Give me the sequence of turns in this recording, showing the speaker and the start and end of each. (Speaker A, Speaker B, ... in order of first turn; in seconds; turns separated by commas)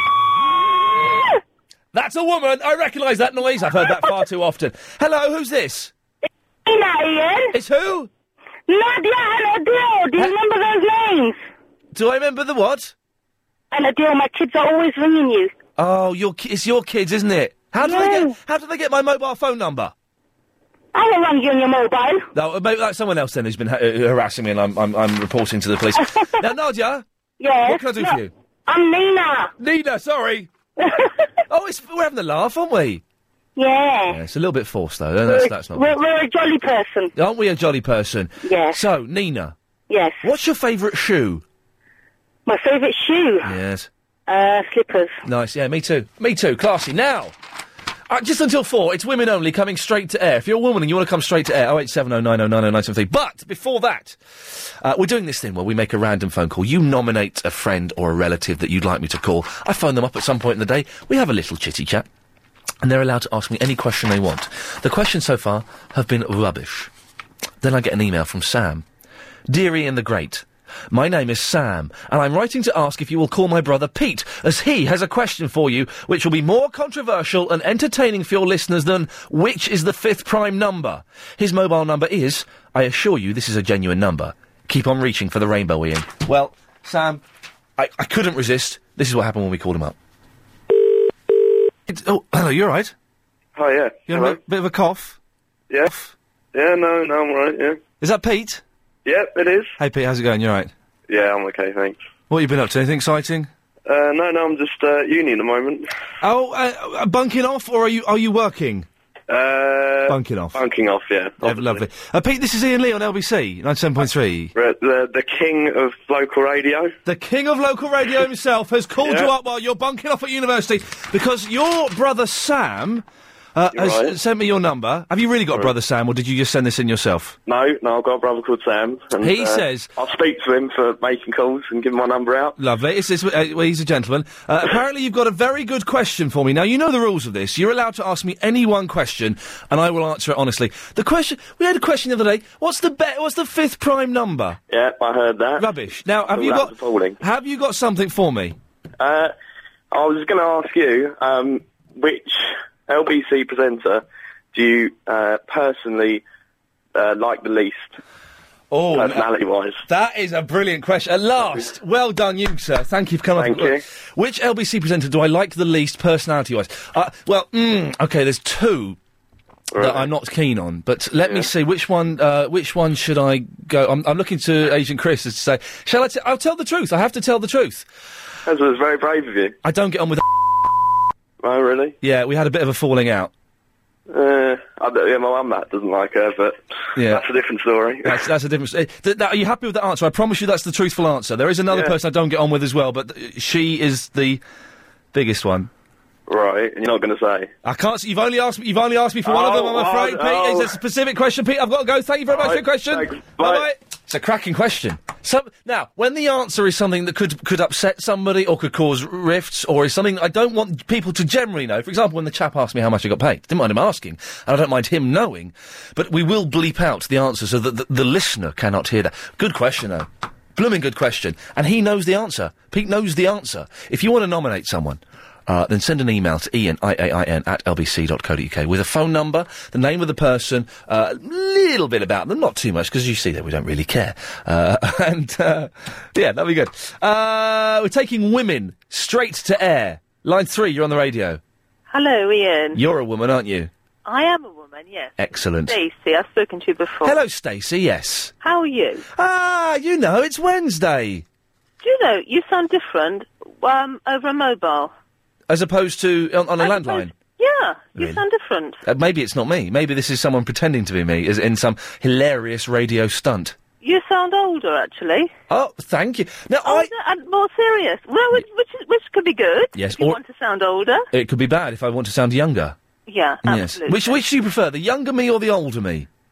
Speaker A: 1.9-5.9, Speaker B: 6.7-7.5, Speaker A: 7.5-8.1, Speaker B: 8.7-11.4, Speaker A: 11.9-12.9, Speaker B: 13.7-15.5, Speaker A: 15.8-19.9, Speaker B: 17.8-18.4, Speaker B: 20.9-22.3, Speaker A: 22.3-27.1, Speaker B: 27.4-29.5, Speaker A: 27.7-28.3, Speaker A: 29.6-30.5, Speaker B: 30.8-31.1, Speaker A: 31.5-33.0, Speaker B: 33.6-34.2, Speaker A: 34.1-35.9, Speaker B: 35.3-37.1, Speaker A: 37.2-39.5, Speaker B: 38.4-38.8, Speaker B: 39.9-40.2, Speaker A: 40.2-41.4, Speaker B: 42.5-43.5, Speaker A: 43.4-43.9, Speaker B: 44.3-45.2, Speaker A: 45.2-47.3, Speaker A: 48.1-62.1, Speaker A: 62.8-66.9, Speaker A: 67.6-68.8, Speaker A: 69.5-87.2, Speaker A: 87.8-90.0, Speaker A: 91.9-92.9, Speaker C: 93.5-94.4, Speaker A: 94.1-95.2, Speaker A: 95.8-96.1, Speaker C: 96.5-97.8, Speaker A: 98.0-98.6, Speaker C: 99.0-99.7, Speaker A: 99.8-100.7, Speaker C: 101.1-102.0, Speaker A: 102.3-103.5, Speaker C: 103.9-105.8, Speaker A: 106.2-108.9, Speaker C: 109.3-111.8, Speaker A: 110.1-110.6, Speaker A: 111.4-114.5, Speaker C: 114.5-116.9, Speaker A: 117.1-127.4, Speaker C: 119.0-119.3, Speaker C: 123.8-124.2, Speaker C: 127.5-132.6, Speaker A: 129.2-129.9, Speaker A: 132.6-144.6, Speaker C: 144.7-145.7, Speaker A: 145.6-148.6, Speaker C: 146.3-147.2, Speaker C: 149.0-149.3, Speaker C: 149.9-156.2, Speaker C: 156.9-158.0, Speaker A: 158.7-159.3, Speaker C: 158.9-159.8, Speaker A: 159.8-169.0, Speaker C: 163.4-163.8, Speaker C: 169.8-170.1, Speaker A: 169.8-177.9, Speaker C: 178.5-179.6, Speaker A: 179.6-180.7, Speaker C: 181.4-182.0, Speaker A: 182.0-183.3, Speaker C: 184.1-188.2, Speaker A: 187.0-187.2, Speaker A: 188.1-194.4, Speaker C: 191.7-192.0, Speaker A: 195.1-195.7, Speaker C: 196.3-197.5, Speaker A: 197.6-241.4, Speaker C: 199.2-200.7, Speaker C: 202.3-203.7, Speaker D: 241.9-242.8, Speaker A: 242.7-243.7, Speaker D: 244.1-247.2, Speaker A: 245.2-245.8, Speaker A: 247.0-248.3, Speaker D: 248.4-249.1, Speaker A: 249.1-251.2, Speaker D: 251.8-254.9, Speaker A: 255.5-257.1, Speaker D: 256.6-258.8, Speaker A: 258.0-258.2, Speaker A: 258.8-263.6, Speaker D: 263.8-265.3, Speaker A: 265.5-266.9, Speaker D: 266.6-271.1, Speaker A: 269.8-270.2, Speaker A: 271.1-272.8, Speaker D: 273.1-274.2, Speaker A: 273.4-276.1